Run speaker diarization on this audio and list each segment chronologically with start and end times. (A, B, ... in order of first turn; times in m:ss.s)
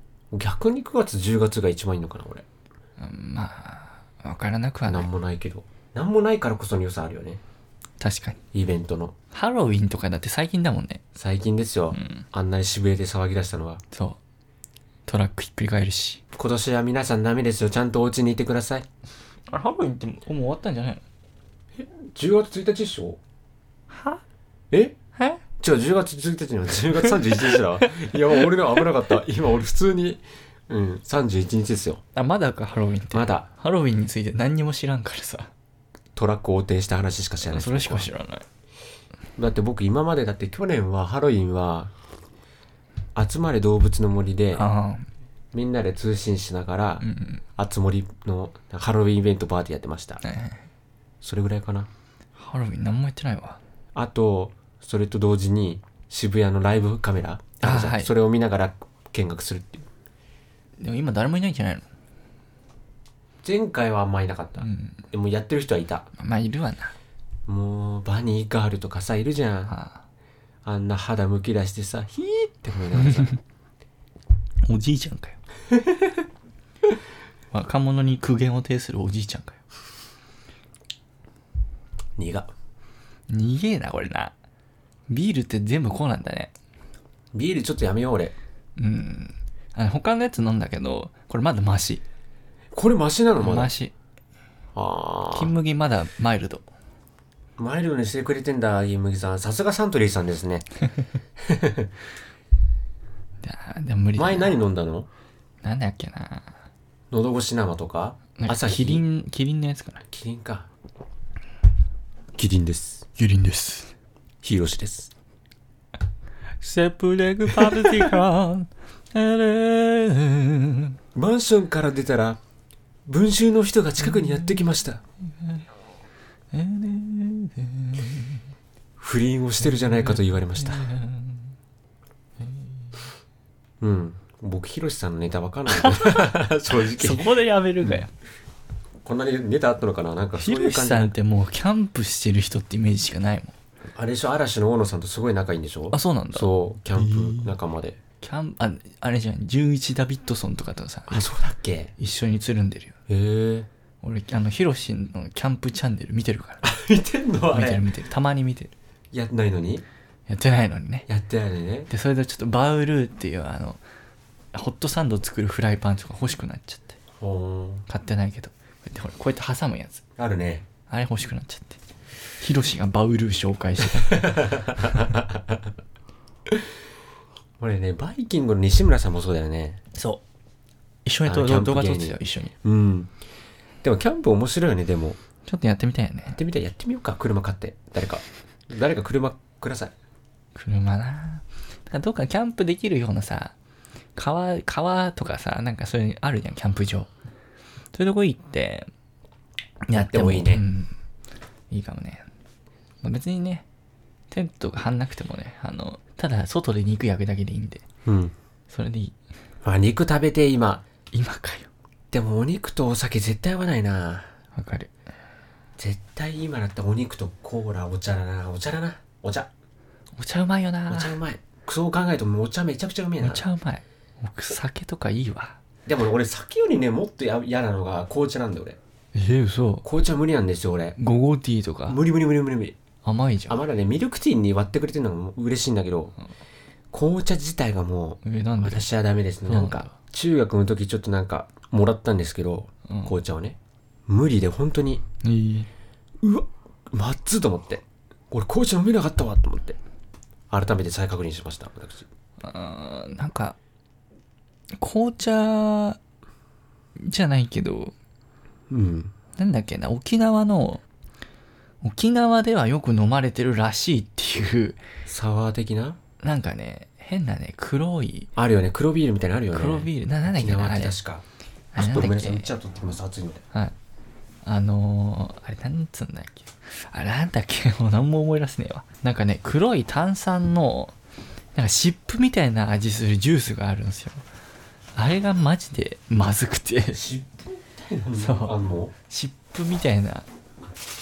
0:00.3-0:02.4 A
0:03.0-0:05.1 B
0:04.9-0:07.4 A
0:08.0-0:08.4 B
0:08.5-0:09.2 A
0:09.3-0:11.0 B
0:11.2-0:13.8 A
0:11.9-0:12.3 B
0:13.9-0:14.2 B
0:15.1-0:16.2 B
0:16.4-0:18.9 A
0:19.5-0:21.0 B
0:21.8-0:23.2 A
0:23.9-0:24.2 B
0:24.7-0:25.0 A
0:25.2-0:25.4 B
0:25.6-0:32.0 A
0:27.5-0:28.5 B
0:32.2-0:35.5 B
0:33.1-0:33.5 A
0:36.2-0:38.1 A
0:37.5-0:38.4 B
0:39.4-0:41.9 A
0:43.2-0:44.7 A
0:44.6-0:45.1 B
0:45.5-0:47.0 A
0:47.0-0:47.4 B
0:47.6-0:50.2 A
0:50.2-0:50.6 B
0:51.2-0:51.9 A
0:52.4-0:53.6 B
0:54.0-0:59.8 A
0:57.6-0:58.1 B
1:00.8-1:01.9 B
1:03.4-1:06.1 A
1:04.6-1:05.0 B
1:06.2-1:06.9 B
1:07.5-1:09.7 A
1:09.7-1:10.0 B
1:10.6-1:13.4 A
1:13.0-1:13.4 B
1:14.6-1:15.4 B
1:15.7-1:16.0 A
1:17.5-1:19.6 B
1:22.2-1:22.5 A
1:23.3-1:24.3 B
1:25.1-1:26.5 B
1:27.3-1:28.4 A
1:28.8-1:32.0 B
1:32.7-1:33.7 A
1:33.4-1:33.9 B
1:34.8-1:35.5 A
1:35.3-1:36.6 B
1:37.6-1:40.7 A
1:41.4-1:41.9 A
1:43.4-1:44.6 B
1:44.2-1:45.1 A
1:45.6-1:46.5 B
1:47.1-1:49.0 A
1:48.4-1:50.0 B
1:50.1-1:50.7 A
1:52.4-1:53.1 A
1:53.2-1:53.9 B
1:54.4-1:55.1 A
1:56.6-2:01.0 B
1:57.5-1:58.1 A
2:01.2-2:02.4 A
2:03.1-2:05.0 A
2:04.1-2:04.6 B
2:06.5-2:08.4 B
2:09.0-2:10.9 A
2:09.6-2:11.5 B
2:12.4-2:12.9 B
2:13.8-2:17.3 A
2:15.7-2:18.1 B
2:19.0-2:21.2 A
2:20.4-2:23.6 B
2:24.0-2:28.0 A
2:25.9-2:27.5 B
2:28.2-2:31.3 B
2:31.1-2:31.9 A
2:32.0-2:33.0 B
2:33.1-2:33.7 A
2:34.0-2:36.7 B
2:36.6-2:37.9 A
2:37.5-2:38.7 B
2:39.1-2:39.8 A
2:40.3-2:41.1 B
2:41.1-2:41.9 A
2:41.9-2:43.8 B
2:44.5-2:47.0 B
2:47.2-2:47.8 A
2:47.9-2:50.0 B
2:50.2-2:50.7 A
2:50.9-2:51.8 B
2:52.4-2:55.1 B
2:53.9-2:55.6 A
2:57.6-2:59.8 A
3:00.0-3:00.2 B
3:01.1-3:02.5 B
3:01.3-3:03.1 A
3:03.8-3:05.2 A
3:05.5-3:06.4 B
3:06.3-3:09.9 A
3:10.6-3:13.6 B
3:14.2-3:17.1 B
3:17.9-3:18.9 B
3:19.8-3:20.9 B
3:19.9-3:20.6 A
3:21.7-3:22.3 B
3:23.0-3:23.6 B
3:24.3-3:27.8 B
3:28.0-3:28.3 A
3:28.7-3:29.2 B
3:29.6-3:30.8 A
3:31.1-3:31.7 B
3:32.1-3:34.3 A
3:34.6-3:34.9 B
3:35.8-3:39.5 A
3:40.2-3:41.2 B
3:40.9-3:43.4 A
3:43.2-3:45.6 B
3:45.9-3:48.8 A
3:49.2-3:49.9 B
3:49.8-3:51.0 A
3:51.0-3:52.0 B
3:51.9-3:52.8 A
3:53.0-3:53.6 B
3:53.5-3:56.2 A
3:56.9-4:05.0 A
3:58.2-3:58.9 B
3:59.5-3:59.9 B
4:02.9-4:03.2 B
4:05.2-4:05.7 B
4:06.2-4:09.8 A
4:10.5-4:12.1 A
4:12.4-4:13.6 B
4:14.8-4:16.0 B
4:17.0-4:17.9 B
4:18.7-4:19.1 A
4:19.4-4:20.8 B
4:21.8-4:24.8 B
4:25.1-4:26.0 A
4:26.2-4:28.3 B
4:28.4-4:31.2 A
4:29.5-4:31.0 B
4:31.7-4:32.5 B
4:31.8-4:33.4 A
4:34.4-4:40.9 B
4:41.6-4:44.2 B
4:45.0-4:47.0 B
4:46.9-4:48.9 A
4:48.2-4:50.3 B